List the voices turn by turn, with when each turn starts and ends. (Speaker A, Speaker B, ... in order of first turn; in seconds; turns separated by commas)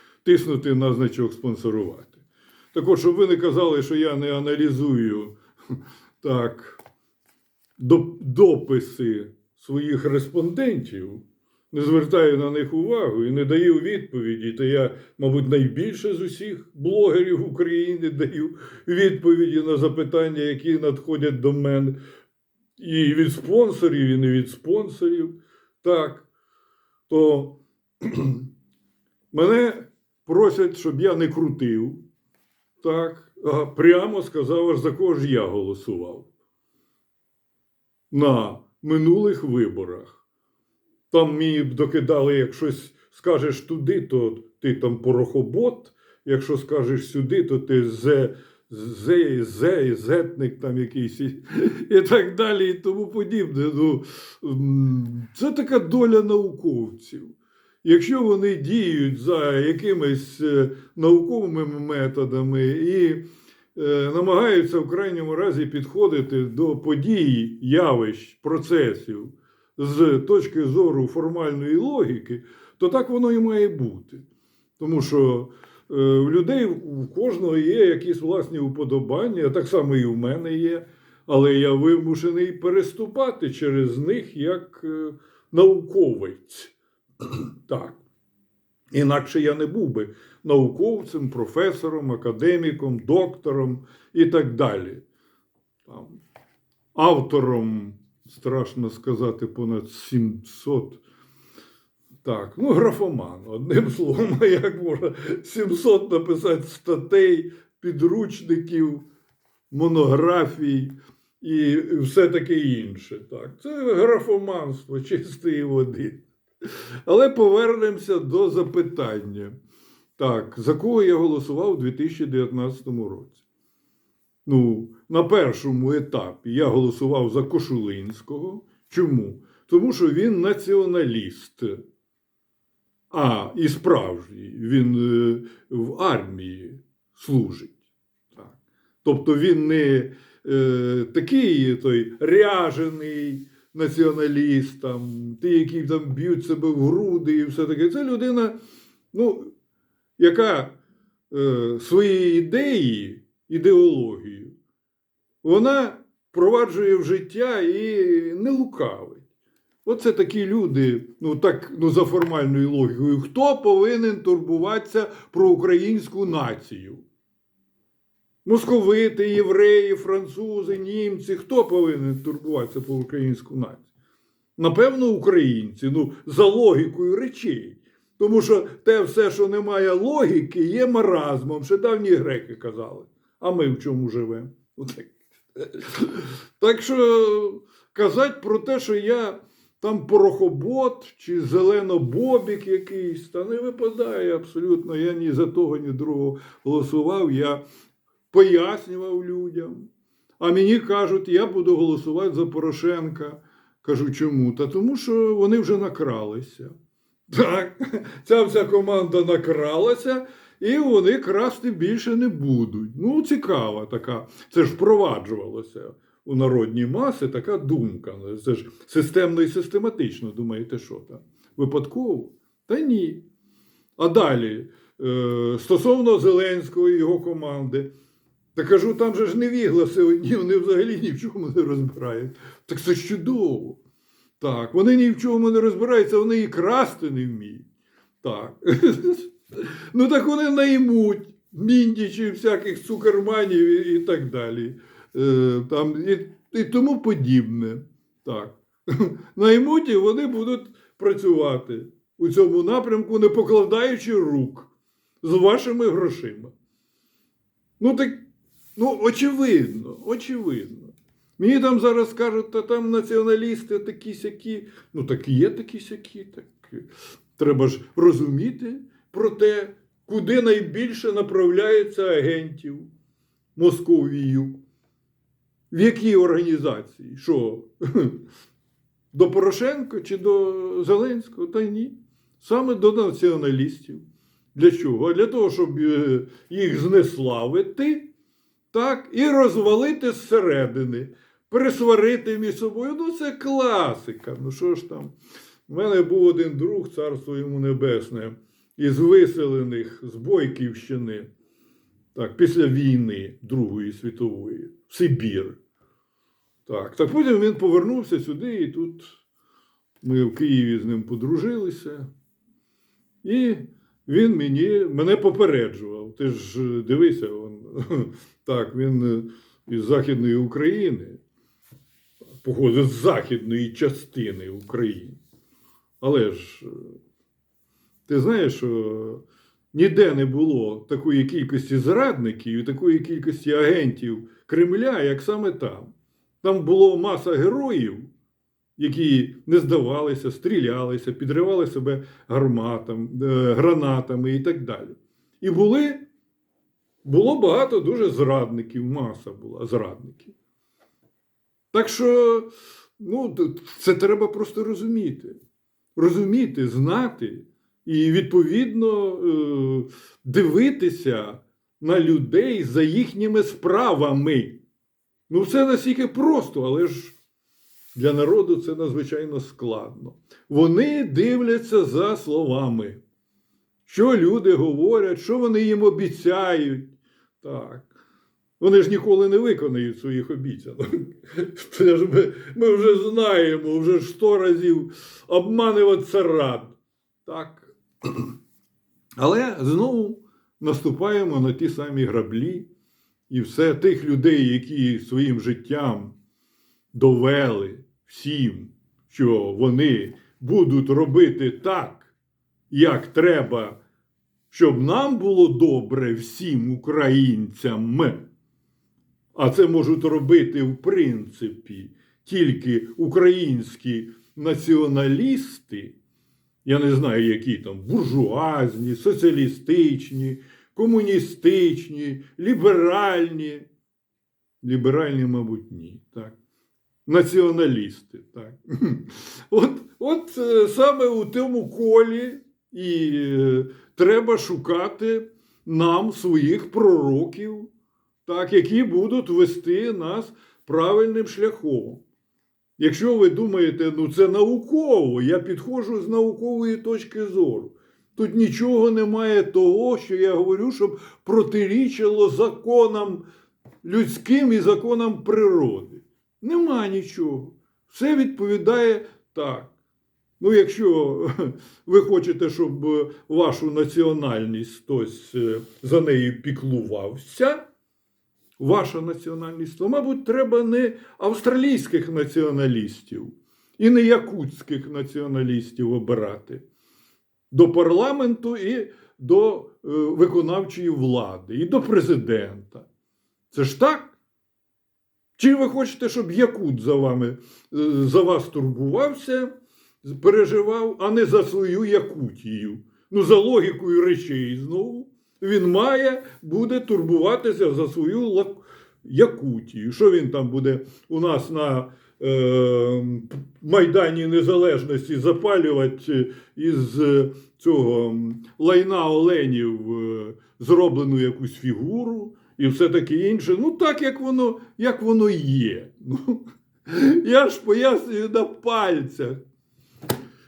Speaker A: 0.2-6.8, Speaker A: 7.8-22.0, Speaker A: 22.8-26.3, Speaker A: 27.1-28.4, Speaker A: 29.3-32.0, Speaker A: 32.8-36.3, Speaker A: 38.1-40.2, Speaker A: 41.1-63.2, Speaker A: 63.7-74.2, Speaker A: 74.8-88.0, Speaker A: 88.9-95.0, Speaker A: 95.8-96.2, Speaker A: 96.9-101.0, Speaker A: 102.2-109.0, Speaker A: 109.7-116.2, Speaker A: 117.0-119.5, Speaker A: 120.2-123.4, Speaker A: 124.4-131.8, Speaker A: 133.1-137.8, Speaker A: 138.3-148.6, Speaker A: 149.1-149.5, Speaker A: 150.2-150.8, Speaker A: 151.3-154.5, Speaker A: 155.4-159.3, Speaker A: 159.8-167.0, Speaker A: 168.4-173.9, Speaker A: 174.6-197.6, Speaker A: 198.3-199.9, Speaker A: 200.4-206.7, Speaker A: 207.3-223.2, Speaker A: 224.0-227.9, Speaker A: 228.5-233.8, Speaker A: 234.4-237.7, Speaker A: 238.2-256.5, Speaker A: 257.8-258.2, Speaker A: 258.8-272.9, Speaker A: 273.6-274.6, Speaker A: 275.7-278.2, Speaker A: 279.1-284.0, Speaker A: 284.5-288.1, Speaker A: 288.7-295.1, Speaker A: 295.7-301.3, Speaker A: 302.1-305.6, Speaker A: 306.7-309.1, Speaker A: 310.0-312.1, Speaker A: 313.2-321.2, Speaker A: 322.4-325.2, Speaker A: 326.0-327.0, Speaker A: 328.1-335.9, Speaker A: 336.4-338.1, Speaker A: 338.8-346.1, Speaker A: 347.0-350.3, Speaker A: 351.7-355.4, Speaker A: 355.9-364.6, Speaker A: 365.3-367.2, Speaker A: 367.9-373.0, Speaker A: 373.9-376.9, Speaker A: 377.4-377.9, Speaker A: 378.6-388.3, Speaker A: 389.2-392.7, Speaker A: 393.3-396.1, Speaker A: 396.9-402.1, Speaker A: 402.7-403.8, Speaker A: 404.5-408.2, Speaker A: 409.3-415.9, Speaker A: 416.6-423.7, Speaker A: 424.6-426.3, Speaker A: 427.1-437.7, Speaker A: 438.2-442.0, Speaker A: 442.8-453.2, Speaker A: 453.8-459.7, Speaker A: 460.4-467.6, Speaker A: 468.6-476.6, Speaker A: 477.5-482.9, Speaker A: 483.5-484.1, Speaker A: 485.4-519.4